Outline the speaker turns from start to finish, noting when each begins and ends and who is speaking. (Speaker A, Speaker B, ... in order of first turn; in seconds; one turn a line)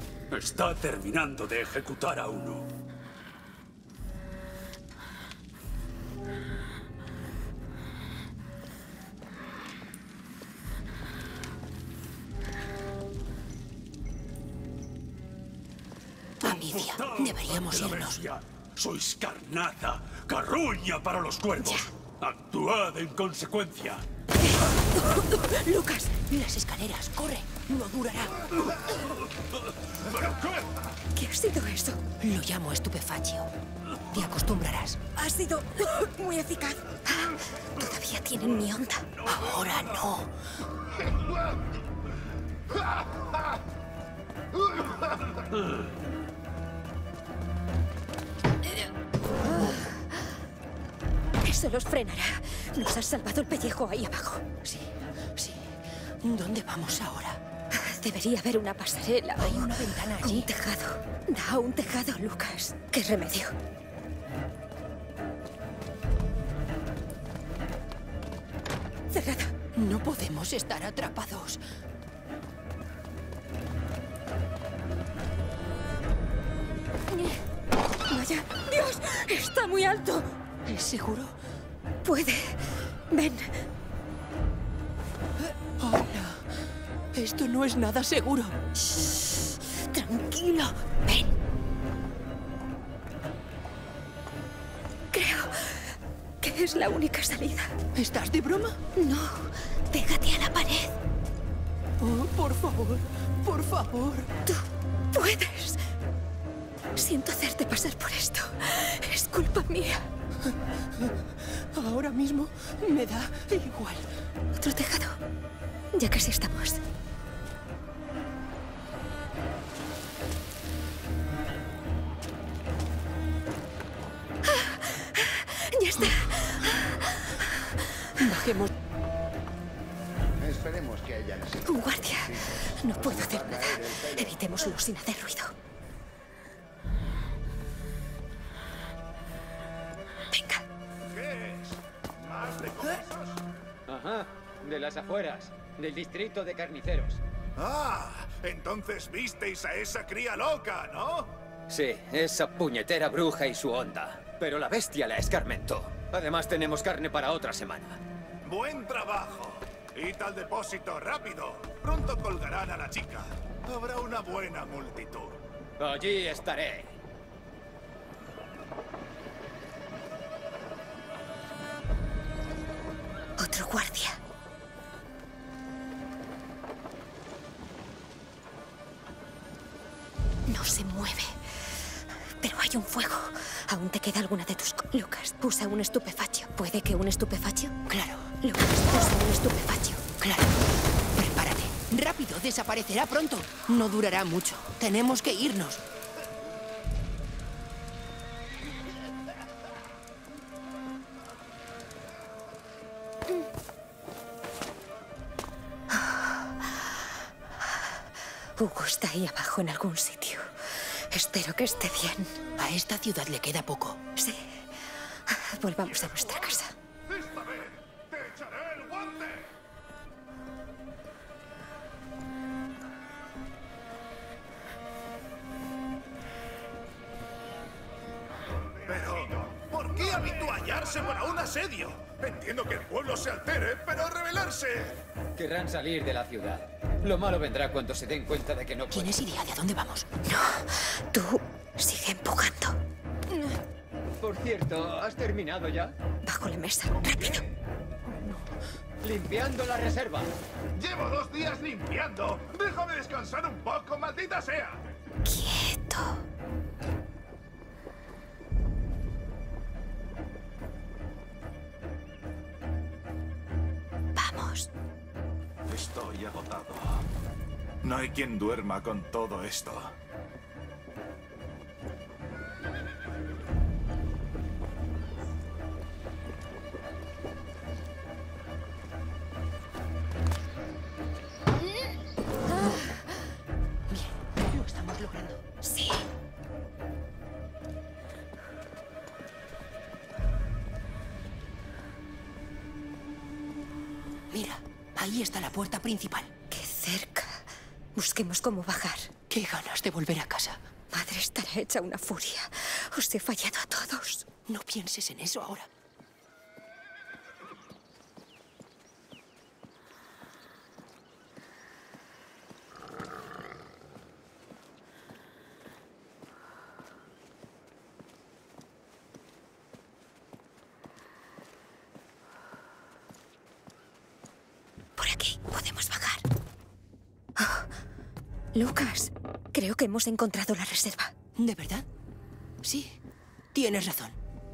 Speaker A: 0.3-2.7
Speaker B: 16.4-18.2
Speaker A: 16.4-24.0
Speaker C: 21.6-21.9
Speaker C: 24.4-26.1
Speaker B: 26.3-28.8
Speaker A: 29.9-30.7
Speaker C: 31.1-32.0
Speaker B: 32.2-33.5
Speaker B: 34.1-35.0
Speaker C: 35.1-39.1
Speaker B: 39.2-40.3
Speaker C: 49.4-50.3
Speaker C: 51.4-54.4
Speaker B: 54.6-57.4
Speaker C: 57.7-63.5
Speaker B: 59.4-60.5
Speaker C: 69.1-69.5
Speaker B: 69.7-71.6
Speaker C: 77.1-77.4
Speaker C: 78.1-80.3
Speaker B: 80.7-81.4
Speaker C: 82.0-83.6
Speaker B: 85.4-86.5
Speaker B: 87.1-88.6
Speaker C: 88.8-91.3
Speaker C: 95.1-97.7
Speaker B: 97.9-98.8
Speaker C: 99.0-100.9
Speaker B: 102.0-104.3
Speaker C: 104.5-105.8
Speaker C: 107.0-110.0
Speaker B: 110.4-114.1
Speaker C: 114.5-115.2
Speaker C: 115.9-116.8
Speaker C: 124.5-128.2
Speaker B: 128.2-128.7
Speaker D: 130.4-131.7
Speaker C: 131.6-135.5
Speaker D: 132.2-134.3
Speaker C: 140.3-140.6
Speaker E: 141.1-143.4
Speaker F: 143.9-147.2
Speaker E: 147.6-151.4
Speaker F: 151.7-158.0
Speaker E: 158.4-165.4
Speaker F: 165.8-166.9
Speaker C: 173.4-174.2
Speaker C: 180.5-187.7
Speaker B: 187.9-188.3
Speaker C: 188.4-190.0
Speaker B: 190.2-195.8
Speaker C: 205.9-207.1
Speaker C: 208.6-212.3
Speaker B: 212.6-214.0
Speaker C: 214.2-216.7
Speaker E: 215.8-219.5
Speaker E: 228.7-235.0
Speaker F: 235.3-239.2
Speaker B: 238.9-240.1
Speaker C: 240.2-242.8
Speaker C: 243.3-243.6
Speaker F: 244.2-245.9
Speaker C: 246.2-247.4
Speaker E: 247.0-247.5
Speaker B: 248.1-248.4
Speaker F: 249.0-250.3
Speaker E: 250.7-254.8
Speaker C: 255.2-256.2
Speaker C: 264.1-264.7
Speaker E: 265.7-267.0
Speaker E: 267.8-269.9
Speaker C: 282.5-283.2
Speaker B: 283.9-285.4
Speaker C: 285.6-286.1
Speaker B: 294.3-296.3
Speaker C: 296.5-299.1
Speaker B: 299.3-300.6
Speaker C: 300.9-304.2
Speaker B: 304.5-305.7
Speaker C: 325.0-326.2
Speaker C: 327.4-327.7
Speaker C: 328.5-331.1
Speaker B: 331.4-331.9
Speaker B: 332.6-333.0
Speaker B: 333.5-334.2